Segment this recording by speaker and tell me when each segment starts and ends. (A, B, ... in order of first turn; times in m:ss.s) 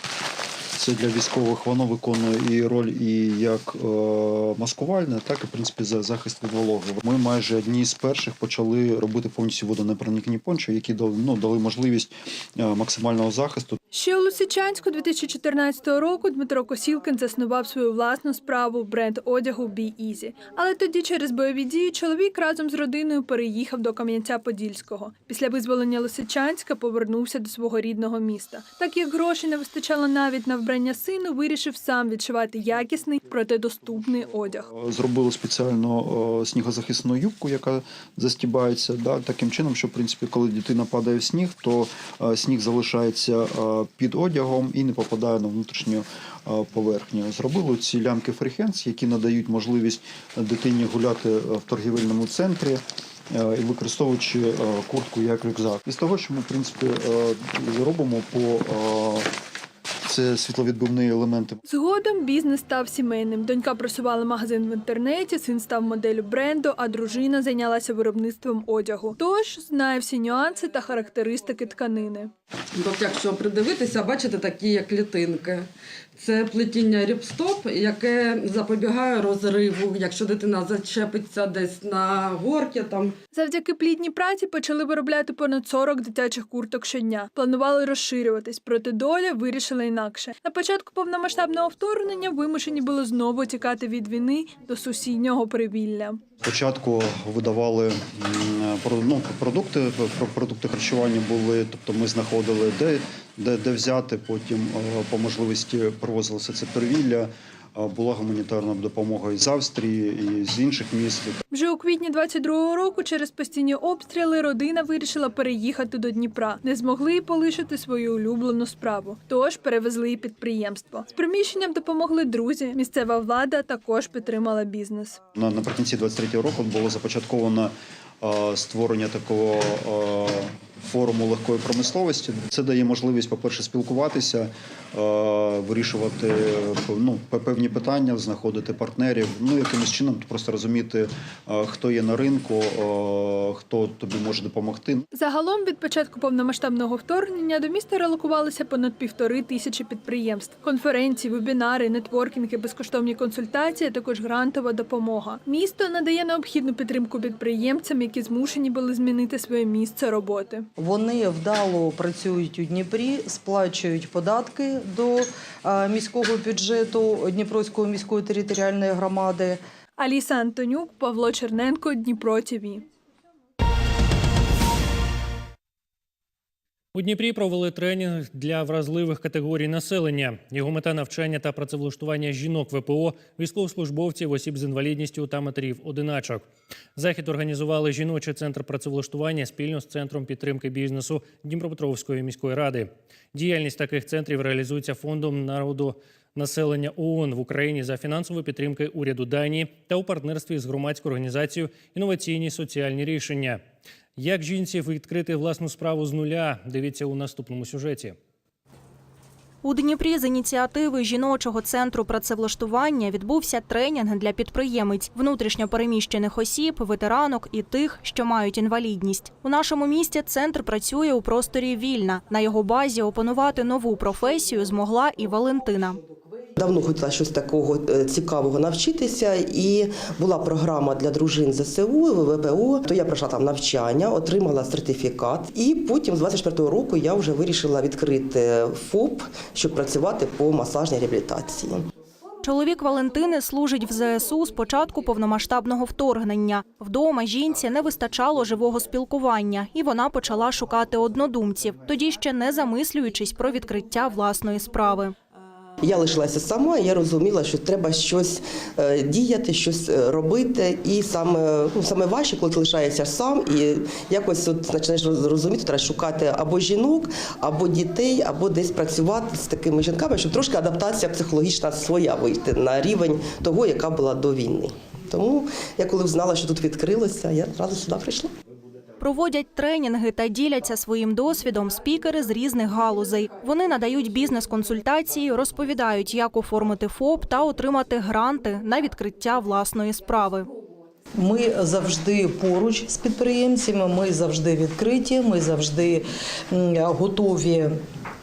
0:00.7-0:13.8 A
0:13.9-0:34.7 B
0:34.7-0:59.3 A
1:00.0-1:01.6 A
1:01.6-1:12.3 B
1:12.7-1:23.2 C
1:23.3-1:36.2 B
1:36.4-1:51.4 A
1:51.5-2:05.2 B
2:05.4-2:25.0 A
2:25.1-2:40.7 B
2:40.8-2:49.6 D
2:50.0-2:52.8 B
2:56.9-3:23.6 E
3:24.2-3:28.2 E
3:29.6-3:46.0 F
3:46.6-4:01.8 G
4:02.4-4:15.1 F
4:15.8-4:38.3 G
4:39.0-4:50.5 F
4:51.1-4:57.8 D